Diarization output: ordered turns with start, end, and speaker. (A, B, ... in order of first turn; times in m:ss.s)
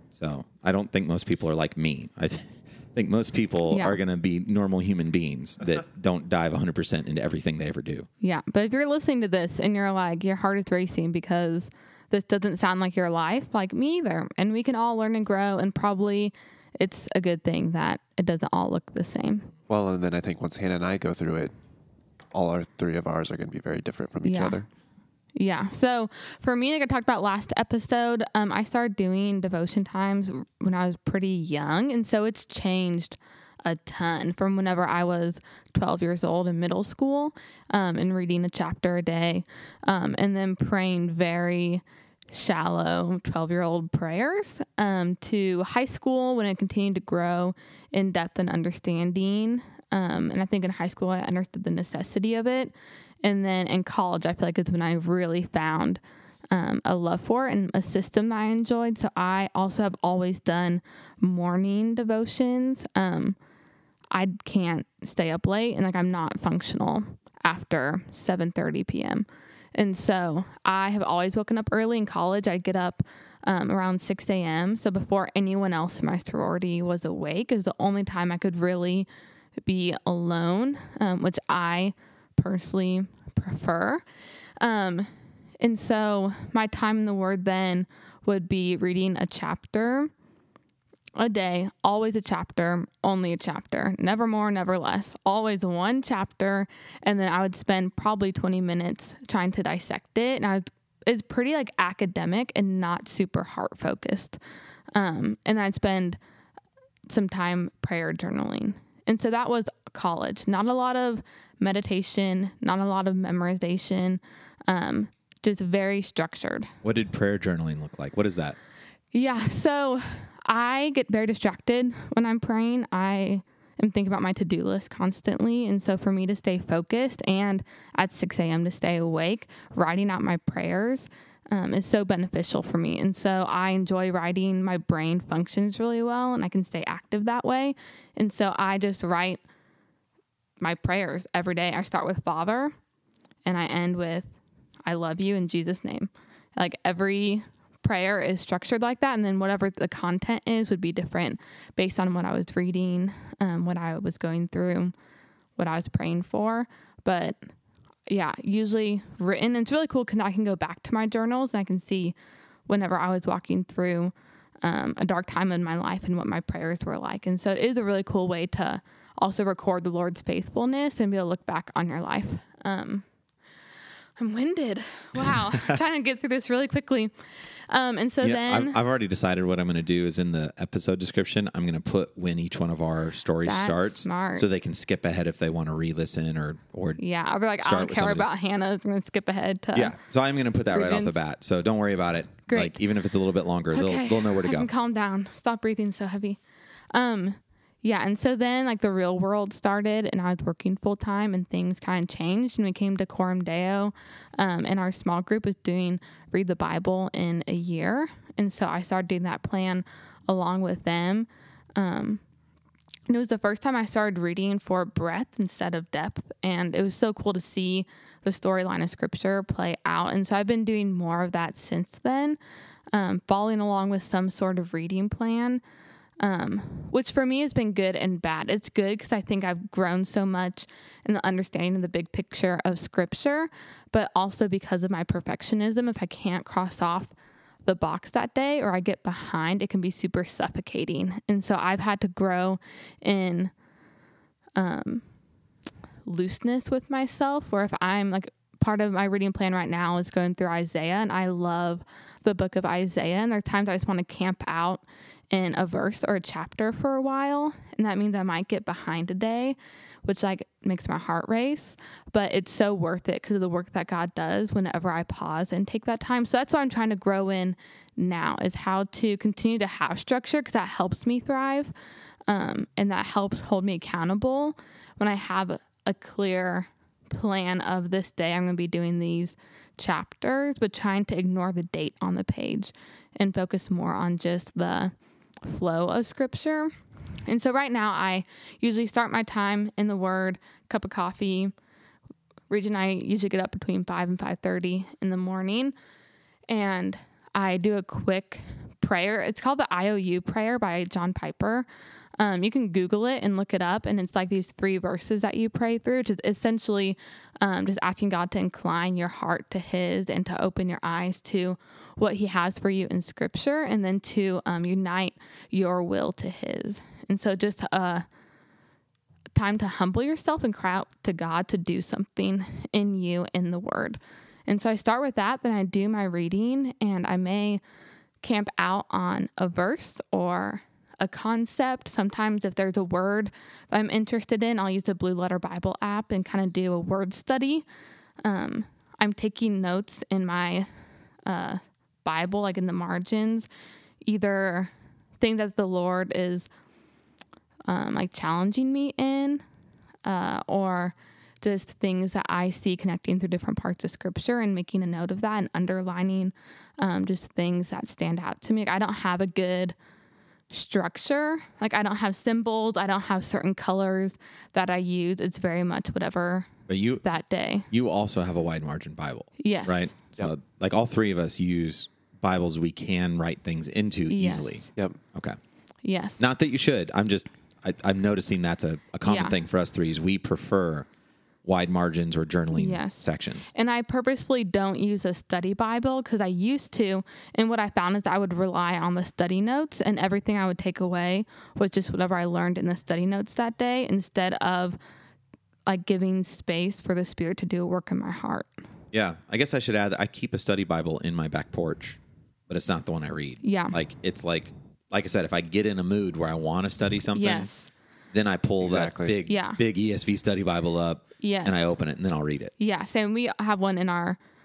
0:00.2-0:08.1 A
0:03.7-0:04.0 B
0:08.2-0:19.5 B
0:19.7-0:21.5 C
0:22.3-0:24.7 C
0:24.2-0:24.6 B
0:25.4-0:56.0 B
0:56.5-1:03.4 B
1:04.1-1:19.1 B
1:19.6-1:24.0 B
1:24.6-1:25.1 B
1:25.6-1:30.1 B
1:31.2-1:44.4 B
1:45.0-1:46.2 B
1:47.1-1:56.7 B
1:56.8-1:58.6 A
1:59.1-2:19.4 B
2:20.6-2:22.7 B
2:23.4-2:24.4 B
2:24.9-2:34.9 B
2:35.6-2:37.4 B
2:38.1-2:42.2 B
2:42.7-2:53.1 B
2:54.2-2:57.1 B
2:55.3-2:55.8 A
2:57.7-2:58.8 B
2:58.2-3:07.0 A
3:03.4-3:04.5 B
3:07.0-3:09.9 B
3:07.6-3:08.3 A
3:09.8-3:14.7 A
3:10.7-3:11.2 B
3:12.5-3:12.8 B
3:13.7-3:16.4 B
3:16.9-3:32.2 B
3:33.1-3:42.4 B
3:42.9-3:45.6 B
3:46.2-4:03.5 B
4:04.6-4:05.0 B
4:06.1-4:31.7 B
4:32.3-4:44.9 B
4:45.4-4:46.7 B
4:47.3-4:51.5 B
4:52.5-4:55.8 B
4:56.5-5:01.7 B
5:02.2-5:18.0 B
5:19.4-5:27.6 B
5:28.2-5:37.7 B
5:38.2-5:40.7 B
5:41.3-5:43.5 B
5:44.0-5:46.5 B
5:47.7-5:49.4 B
5:50.1-5:59.8 B
6:00.5-6:06.5 B
6:06.7-6:07.0 A
6:07.0-6:07.7 B
6:07.7-6:15.4 A
6:09.4-6:09.9 B
6:14.1-6:14.7 B
6:15.8-6:16.2 B
6:16.2-6:20.9 A
6:19.0-6:19.3 B
6:21.4-6:23.5 A
6:22.5-6:34.8 B
6:35.7-6:38.5 B
6:38.9-6:47.5 A
6:43.4-6:43.8 B
6:47.1-6:47.7 B
6:48.1-6:52.5 A
6:48.6-6:49.2 C
6:49.3-6:49.6 B
6:51.2-6:51.7 B
6:52.6-6:54.2 B